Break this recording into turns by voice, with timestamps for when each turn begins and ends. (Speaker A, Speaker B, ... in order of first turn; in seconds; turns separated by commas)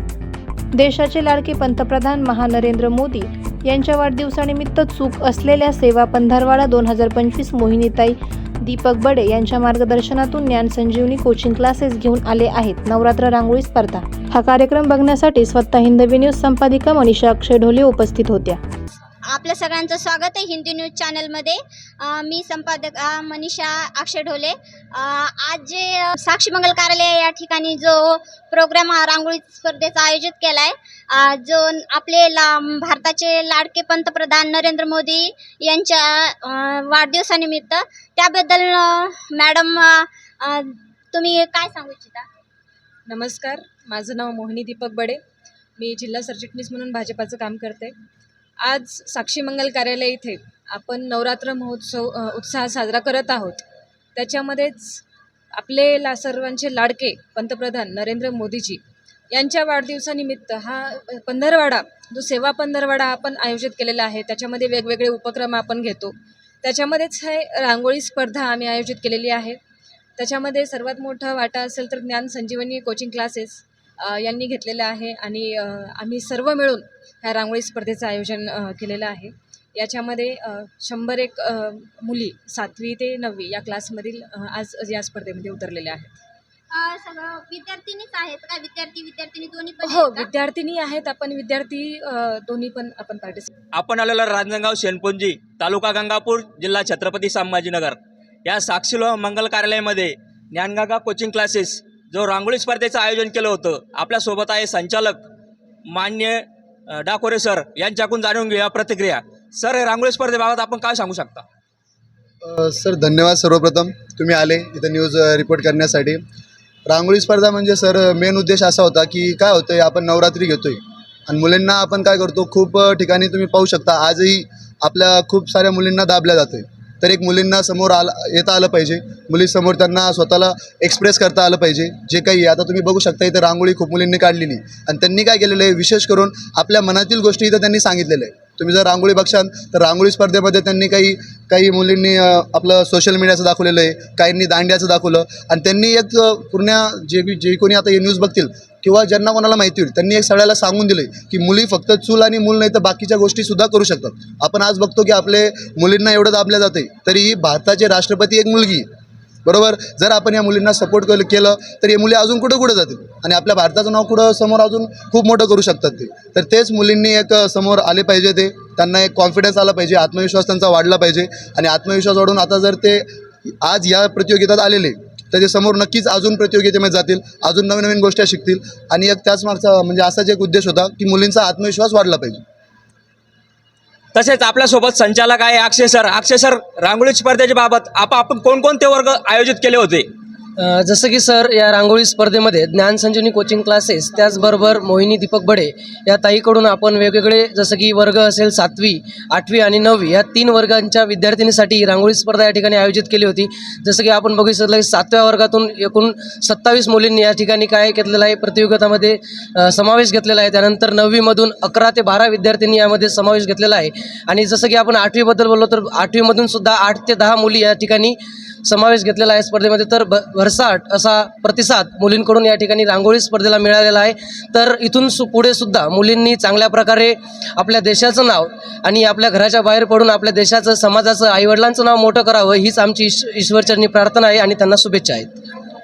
Speaker A: 0.7-18.6, Speaker B: 19.2-42.3, Speaker C: 43.1-45.2, Speaker C: 45.8-47.9, Speaker C: 48.6-53.6, Speaker C: 54.1-55.0, Speaker C: 55.6-58.8, Speaker C: 59.3-69.6, Speaker C: 70.2-86.1, Speaker B: 86.7-90.3, Speaker C: 89.9-93.5, Speaker D: 93.7-105.2, Speaker D: 105.9-111.4, Speaker E: 112.4-116.2, Speaker E: 116.9-158.9, Speaker E: 159.4-182.4, Speaker D: 184.1-190.1, Speaker F: 190.6-235.3